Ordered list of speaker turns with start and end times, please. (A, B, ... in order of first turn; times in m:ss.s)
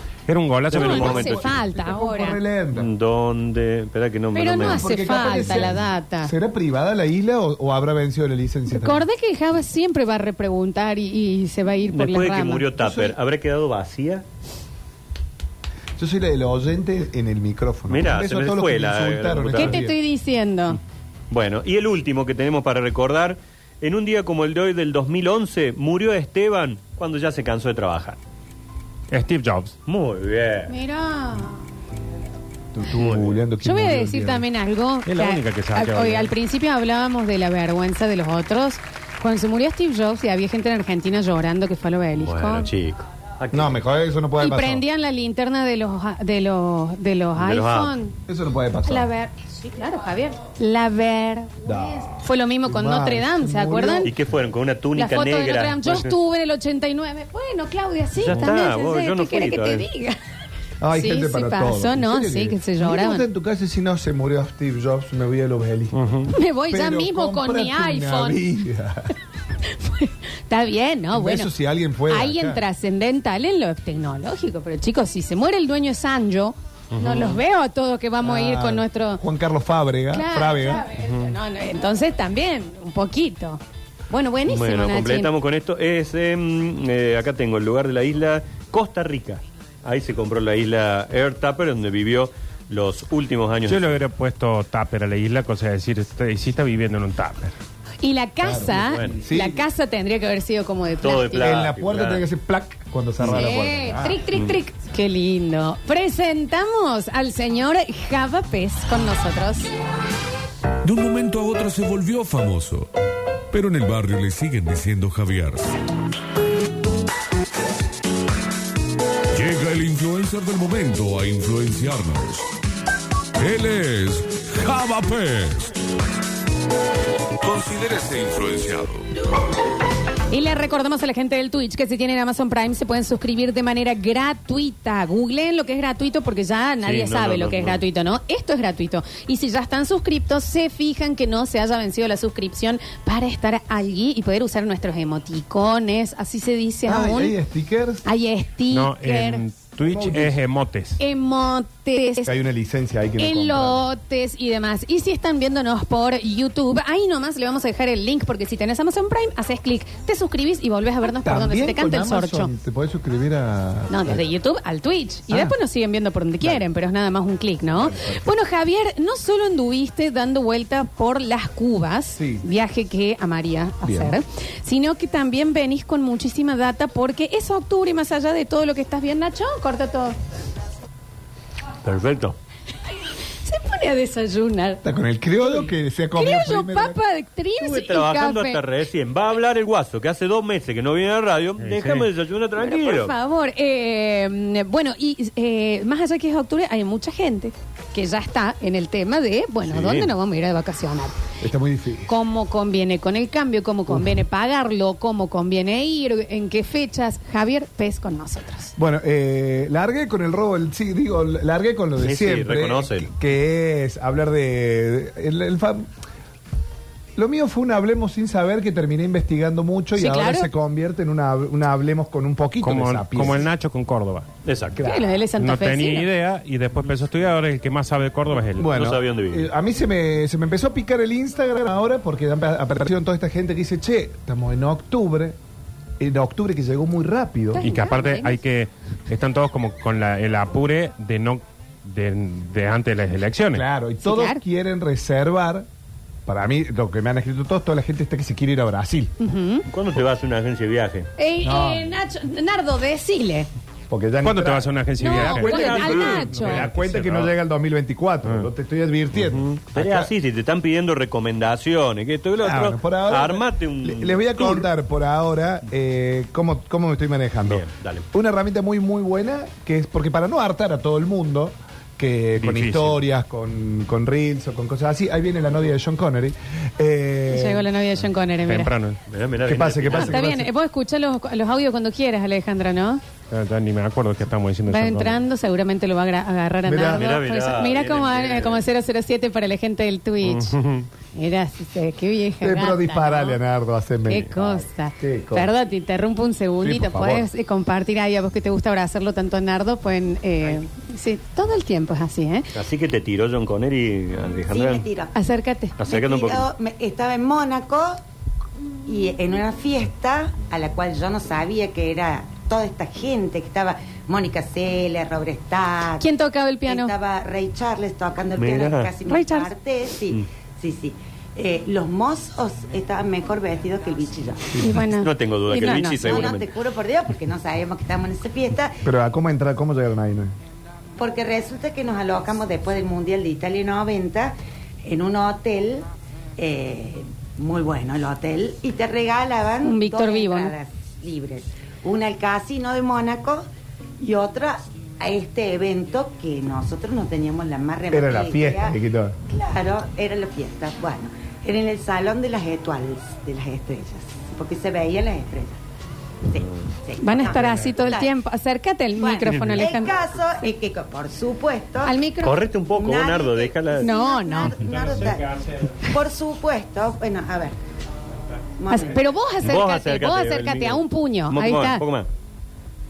0:00.3-0:01.4 A
0:00.7-0:01.5 B
0:00.7-0:02.9 C
0:00.7-0:02.4 D
0:02.7-0:05.5 B
0:04.3-0:06.3 D
0:04.6-0:09.0 C
0:08.7-0:12.7 D
0:11.9-0:14.2 B
0:12.8-0:13.2 C
0:16.0-0:20.0 C
0:17.9-0:19.8 B
0:19.5-0:20.8 D
0:21.3-0:28.2 B
0:29.1-0:29.8 A
0:29.8-0:30.7 B
0:30.7-0:31.6 D
0:32.7-0:34.4 C
0:32.9-0:33.4 B
0:33.6-0:42.7 D
0:35.0-0:36.3 A
0:42.2-0:43.8 B
0:43.5-0:44.8 C
0:44.4-0:48.2 D
0:47.4-0:47.9 B
0:48.3-0:49.1 C
0:48.8-0:54.1 D
0:51.6-0:54.1 C
0:54.0-0:56.1 B
0:55.0-1:00.2 D
0:58.2-0:59.8 B
1:00.8-1:06.0 C
1:00.9-1:03.2 D
1:05.9-1:06.3 A
1:06.3-1:08.4 D
1:06.7-1:09.1 C
1:09.7-1:11.5 D
1:11.1-1:12.6 C
1:12.1-1:19.2 D
1:16.9-1:17.3 A
1:18.2-1:20.9 C
1:20.1-1:25.3 D
1:21.0-1:21.3 A
1:24.5-1:34.0 B
1:33.6-1:37.5 A
1:38.0-1:41.6 D
1:38.4-1:39.6 C
1:38.8-1:39.2 B
1:41.0-1:42.2 B
1:41.4-1:44.2 C
1:43.2-1:49.7 D
1:50.8-1:52.9 E
1:53.5-1:55.8 E
1:59.3-2:02.4 E
2:03.4-2:05.7 E
2:07.4-2:09.1 E
2:10.3-2:27.3 D
2:16.8-2:17.8 B
2:26.8-2:28.0 C
2:28.0-2:29.4 D
2:28.7-2:31.0 A
2:29.8-2:30.4 C
2:31.0-2:32.3 D
2:32.2-2:33.8 C
2:33.2-2:42.5 D
2:41.2-2:44.2 C
2:43.9-3:00.2 D
2:45.3-2:45.5 C
2:47.8-2:48.3 C
2:52.1-2:52.4 C
2:53.8-2:54.2 C
3:01.8-3:02.4 B
3:03.4-3:04.8 D
3:04.8-3:07.0 C
3:06.2-3:08.6 D
3:07.6-3:13.1 B
3:11.6-3:12.1 A
3:12.6-3:21.2 D
3:19.6-3:20.1 B
3:21.4-3:22.1 C
3:22.1-3:28.7 D
3:28.8-3:35.9 C
3:32.0-3:33.1 B
3:37.2-3:43.5 C
3:40.0-3:40.5 D
3:42.6-3:44.3 A
3:44.4-3:44.8 B
3:44.8-3:46.1 D
3:45.3-3:48.7 A
3:48.6-3:55.4 C
3:48.7-3:49.5 B
3:56.0-3:57.6 C
3:57.5-3:58.4 D
3:57.6-4:03.6 A
4:03.5-4:05.7 C
4:04.0-4:04.4 D
4:06.2-4:09.1 C
4:09.2-4:09.6 D
4:09.7-4:11.1 B
4:11.2-4:13.5 D
4:11.4-4:11.9 C
4:13.9-4:20.1 C
4:14.2-4:17.3 A
4:15.0-4:16.7 D
4:15.1-4:16.3 B
4:19.2-4:19.6 A
4:19.7-4:24.6 B
4:22.4-4:37.7 C
4:27.4-4:28.0 B
4:32.4-4:33.0 A
4:37.3-4:38.7 D
4:38.5-4:39.0 A
4:39.1-4:40.2 B
4:39.4-4:40.5 C
4:39.9-4:43.0 D
4:43.3-4:45.2 A
4:44.7-4:50.6 D
4:46.6-4:47.0 C
4:46.9-4:48.6 B
4:50.2-4:50.9 A
4:51.1-4:53.4 D
4:52.4-4:55.5 C
4:54.1-5:02.5 D
4:56.6-4:57.3 C
5:02.5-5:04.9 B
5:04.5-5:05.1 F
5:05.1-5:05.8 D
5:05.8-5:06.5 B
5:05.8-5:08.0 F
5:08.8-5:16.0 F
5:16.0-5:16.9 D
5:16.6-5:24.6 F
5:18.4-5:18.9 B
5:19.0-5:19.5 D
5:24.6-5:26.3 D
5:24.9-5:26.5 B
5:25.6-5:28.8 F
5:28.8-5:30.3 C
5:31.0-5:43.4 F
5:39.6-5:40.5 D
5:44.0-5:48.8 F
5:47.9-5:49.2 C
5:49.3-5:55.6 F
5:56.2-5:58.1 F
5:57.0-5:59.9 D
5:57.3-5:57.8 A
5:59.0-6:01.9 F
5:59.3-5:59.7 B
6:01.8-6:02.4 D
6:02.2-6:03.9 B
6:02.7-6:07.6 F
6:03.8-6:04.6 D
6:04.6-6:05.7 A
6:08.6-6:09.1 F
6:08.7-6:11.8 D
6:09.4-6:12.1 B